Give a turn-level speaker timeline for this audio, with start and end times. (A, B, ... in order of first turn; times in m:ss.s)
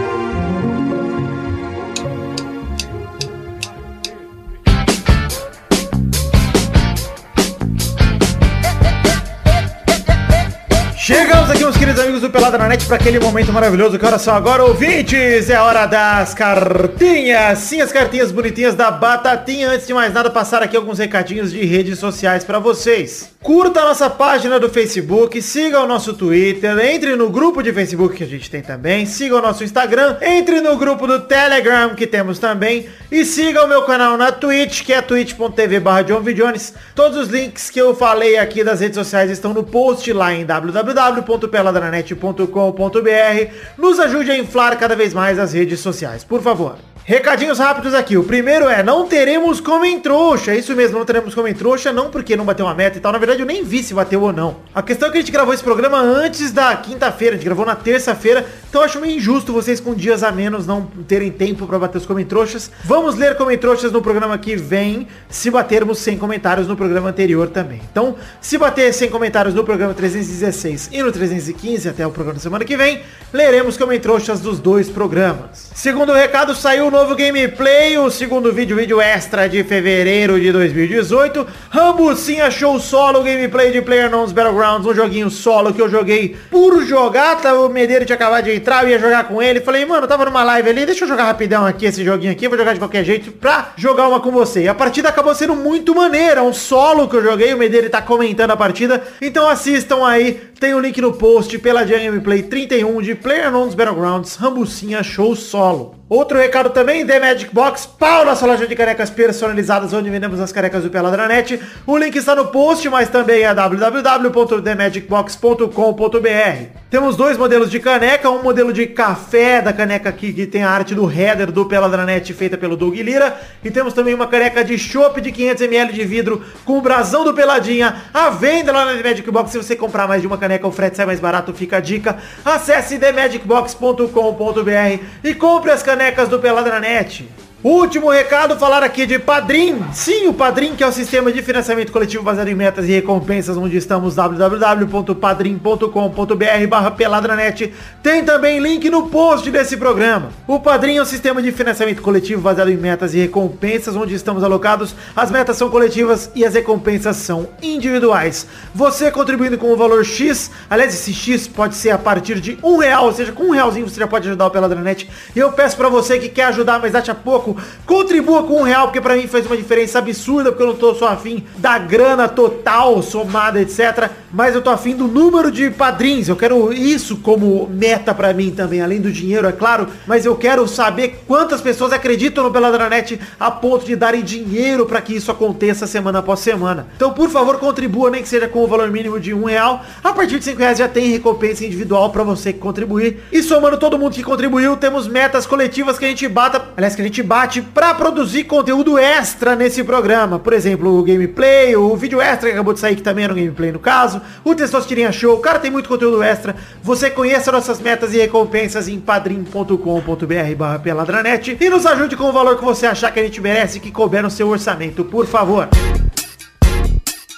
0:11.0-3:35.7 A